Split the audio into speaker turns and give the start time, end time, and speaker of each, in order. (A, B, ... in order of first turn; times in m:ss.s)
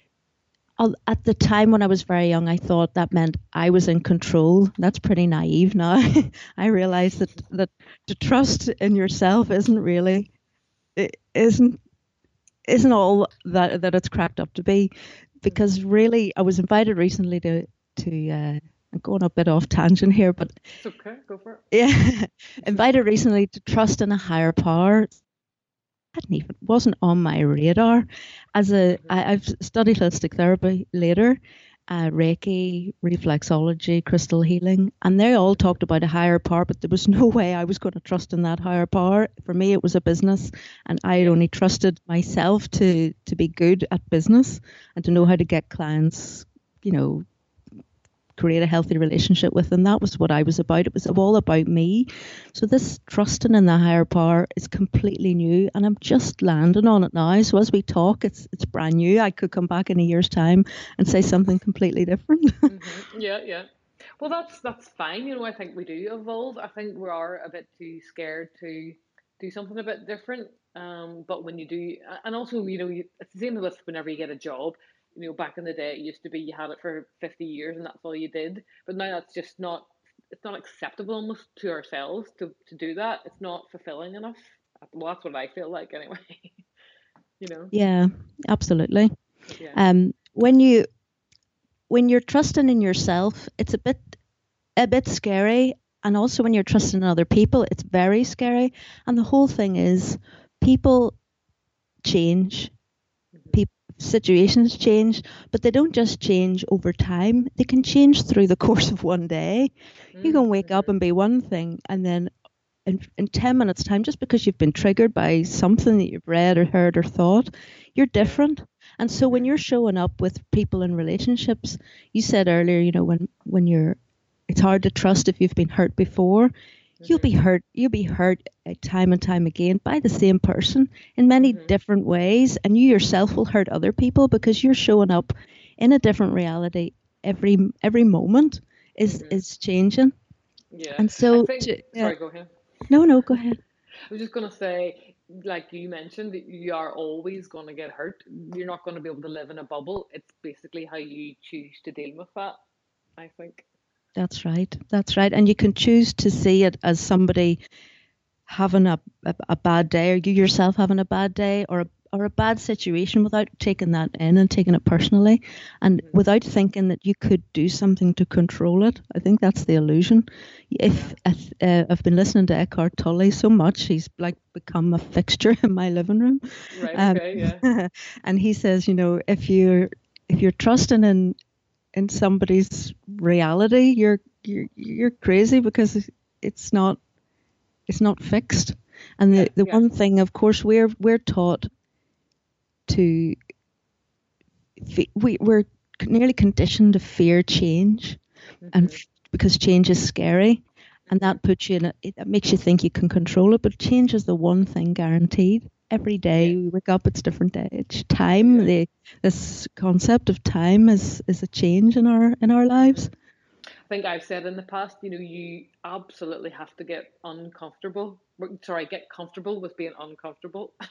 0:00.8-0:10.3 A
0:11.0-0:11.8 A
0:12.7-0:20.5 A
0:20.8-0:21.6 B
0:21.7-0:25.2 A
0:26.1-0:47.2 A
0:28.9-0:29.2 B
0:45.1-0:45.4 B
0:48.4-1:02.7 A
1:02.7-1:03.7 B
1:04.2-1:26.6 B
1:27.4-1:27.7 B
1:27.7-1:29.1 A
1:29.5-1:29.8 B
1:29.7-1:30.9 A
1:31.9-1:34.1 A
1:34.8-1:41.2 A
1:42.0-1:42.7 A
1:43.3-1:43.6 B
1:43.5-1:52.3 A
1:50.1-1:50.9 B
1:52.8-2:04.0 A
1:58.2-1:58.4 B
1:59.2-1:59.5 B
2:04.5-2:06.5 A
2:07.0-2:07.3 B
2:07.0-2:20.1 A
2:11.4-2:11.7 B
2:19.0-2:19.4 B
2:20.7-2:22.5 B
2:21.0-2:22.1 A
2:22.9-2:23.6 A
2:24.1-2:32.6 B
2:33.2-2:33.7 B
2:34.2-2:37.6 A
2:38.5-3:01.4 A
2:50.9-2:51.2 B
2:56.7-2:57.6 B
3:01.9-3:07.0 A
3:07.9-3:11.7 A
3:09.3-3:09.8 B
3:12.9-3:13.4 A
3:14.8-3:18.2 A
3:18.6-3:19.0 B
3:18.7-3:33.1 A
3:21.1-3:21.4 B
3:26.3-3:26.6 B
3:28.4-3:28.7 B
3:32.8-3:33.1 B
3:33.9-3:40.7 B